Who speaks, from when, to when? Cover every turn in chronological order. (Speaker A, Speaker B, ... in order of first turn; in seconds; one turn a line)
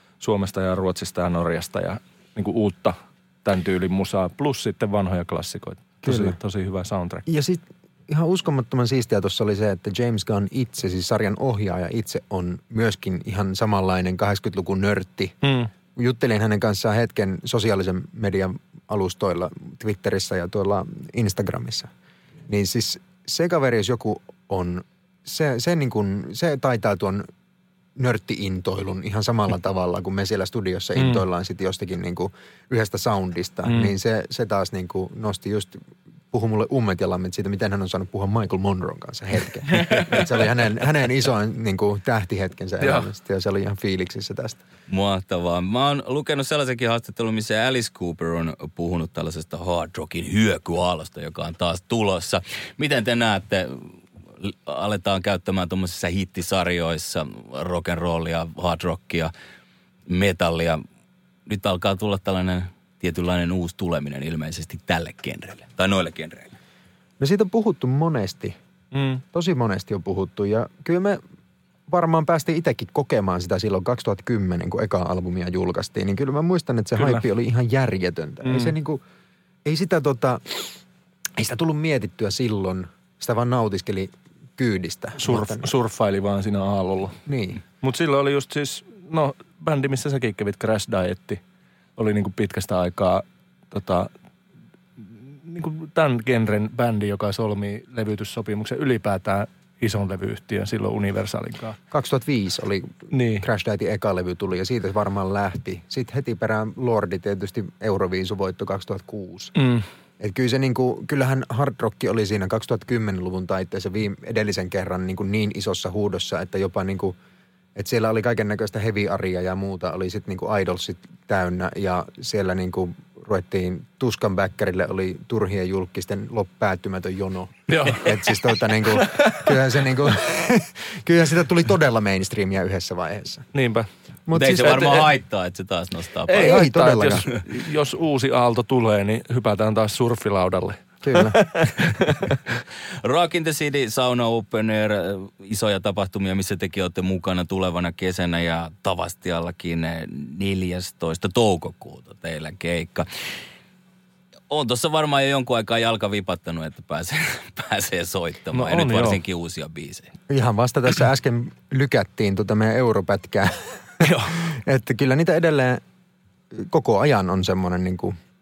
Speaker A: 0.2-7.2
Speaker B: 6.0-6.3
Speaker B: 7.3-15.3
Speaker A: 15.4-15.7
Speaker B: 15.9-21.9
Speaker B: 22.5-27.3
Speaker B: 28.0-35.8
Speaker A: 31.0-31.2
Speaker A: 33.6-33.9
Speaker B: 36.3-44.6
Speaker A: 39.8-40.0
Speaker A: 42.8-43.1
Speaker C: 44.9-59.3
Speaker C: 60.1-60.8
Speaker C: 61.5-66.5
Speaker B: 67.2-68.5
Speaker A: 68.9-69.2
Speaker B: 69.3-71.2
Speaker B: 71.9-79.0
Speaker A: 77.0-77.2
Speaker A: 78.5-78.7
Speaker B: 79.6-80.8
Speaker B: 81.4-85.7
Speaker A: 85.2-87.2
Speaker B: 87.2-87.6
Speaker A: 87.8-91.4
Speaker A: 92.0-94.1
Speaker A: 95.0-101.8
Speaker B: 101.9-109.5
Speaker A: 103.1-103.5
Speaker A: 109.6-109.8
Speaker B: 110.2-117.1
Speaker B: 117.8-133.4
Speaker A: 127.7-129.5
Speaker A: 133.5-133.9
Speaker B: 134.3-134.9
Speaker C: 134.3-136.5
Speaker A: 134.5-135.1
Speaker A: 136.2-142.6
Speaker B: 136.4-137.2
Speaker B: 141.0-141.5
Speaker C: 143.0-153.1
Speaker C: 154.5-160.1
Speaker A: 158.5-159.2
Speaker B: 160.3-165.8
Speaker A: 164.0-164.3
Speaker B: 166.5-168.1